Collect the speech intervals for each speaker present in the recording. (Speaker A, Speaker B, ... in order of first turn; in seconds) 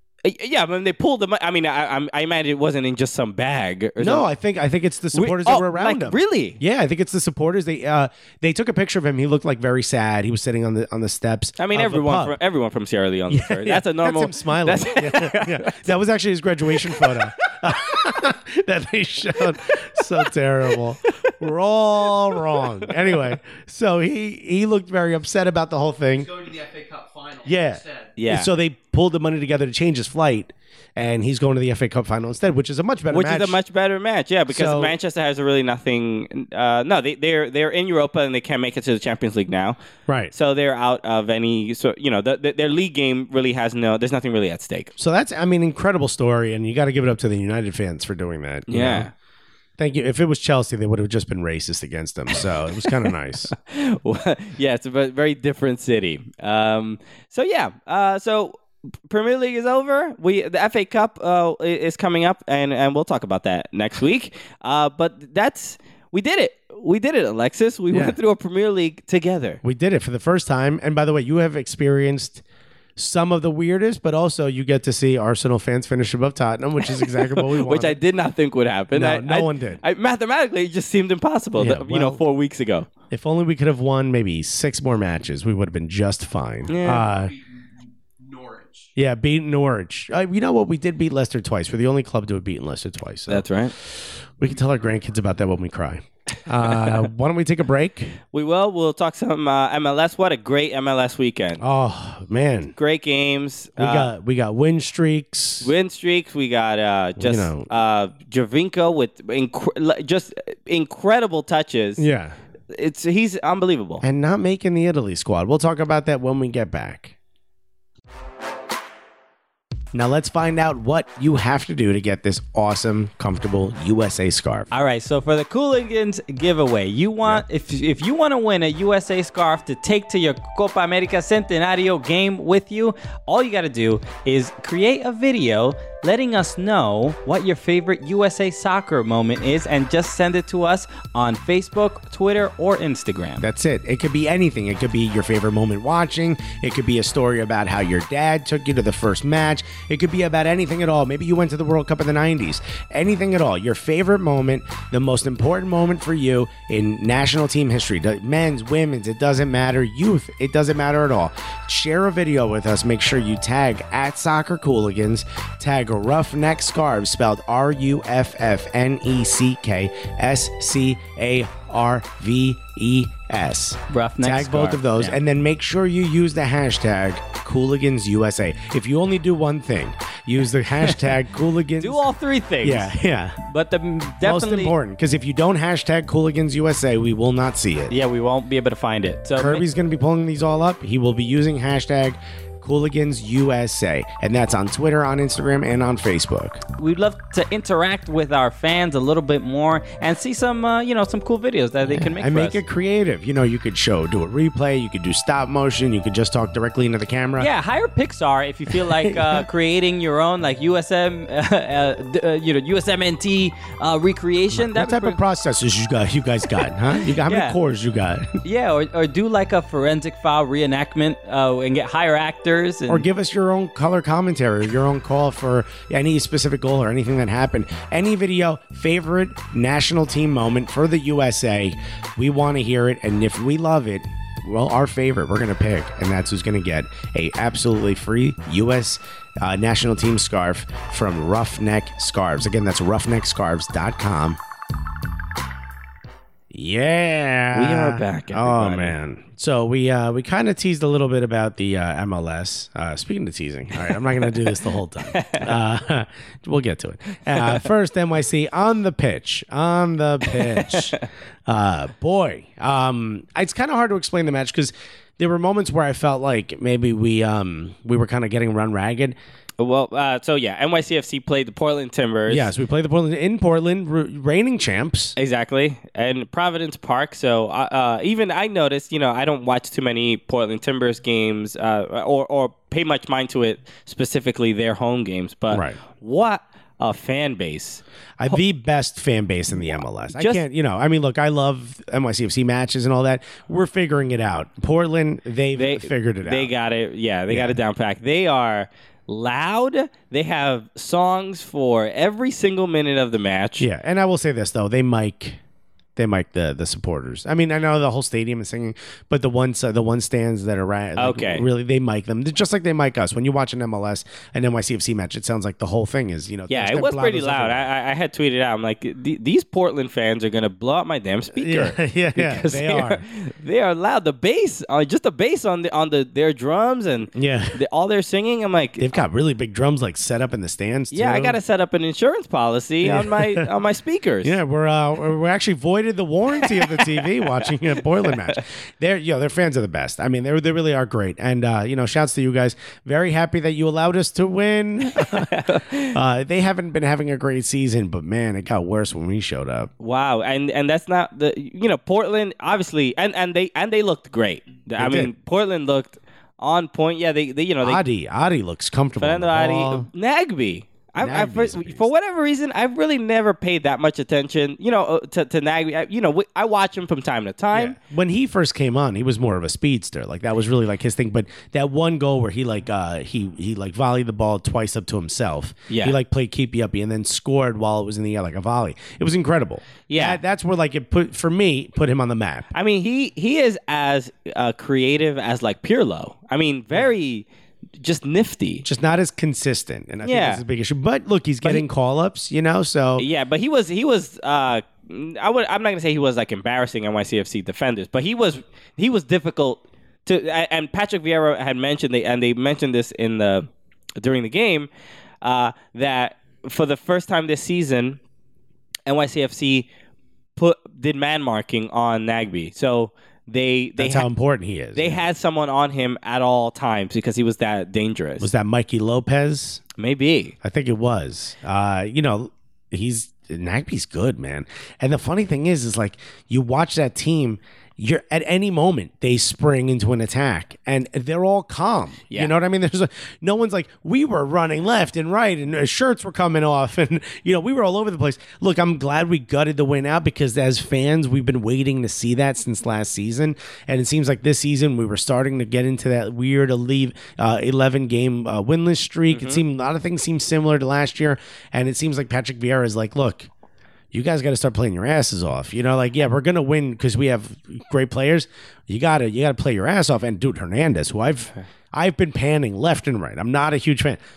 Speaker A: 0.2-4.3, 5.1-6.6, 11.6-15.9, 28.2-28.5, 33.1-39.8, 40.3-44.9, 48.7-49.1, 53.6-69.6, 76.9-82.9, 86.7-87.0, 93.3-93.7, 98.3-101.6, 102.8-104.1, 105.6-112.1, 112.7-114.0, 181.8-182.9, 184.1-184.7, 187.9-189.7, 247.5-249.0, 255.1-255.5, 260.3-261.0, 269.6-272.5, 275.2-288.4, 290.1-290.4, 295.5-303.7, 311.0-311.4, 316.5-328.9, 330.9-334.4, 345.0-345.9, 349.8-357.8, 359.0-367.8, 375.7-376.0, 379.9-380.2, 382.5-387.3, 387.8-388.6, 390.0-390.4, 393.0-403.5, 404.0-404.7, 405.2-408.0, 408.9-409.7, 410.4-414.1, 414.8-418.3, 419.8-420.4, 449.1-449.4
Speaker B: 4.0-12.4, 13.3-26.6, 27.4-33.6, 34.5-35.0, 40.1-40.3, 45.0-49.1, 49.8-53.5, 67.9-68.2, 69.6-72.4, 73.0-78.0, 78.9-79.8, 81.6-82.2, 83.1-87.4, 89.0-98.2, 101.6-102.7, 103.8-105.7, 107.2-107.7, 112.0-112.4, 114.0-117.1, 119.9-124.7, 143.4-182.0, 182.6-183.4, 184.2-187.9, 189.4-196.6, 201.9-207.5, 208.7-209.4, 214.5-218.3, 222.9-244.4, 246.5-269.2, 272.3-275.2, 285.5-285.8, 288.2-296.5, 297.3-297.6, 303.6-305.4, 306.0-317.7, 321.4-323.0, 327.1-327.6, 328.8-331.4, 332.8-333.5, 334.2-349.7, 354.8-355.1, 357.6-359.9, 361.0-361.9, 367.5-382.5, 388.6-393.1, 413.8-415.1, 418.2-419.6, 420.4-453.3, 453.9-464.0
Speaker C: 124.7-143.5, 173.9-175.2, 183.5-184.3, 187.9-188.8, 196.8-202.6, 207.4-215.2, 218.4-223.1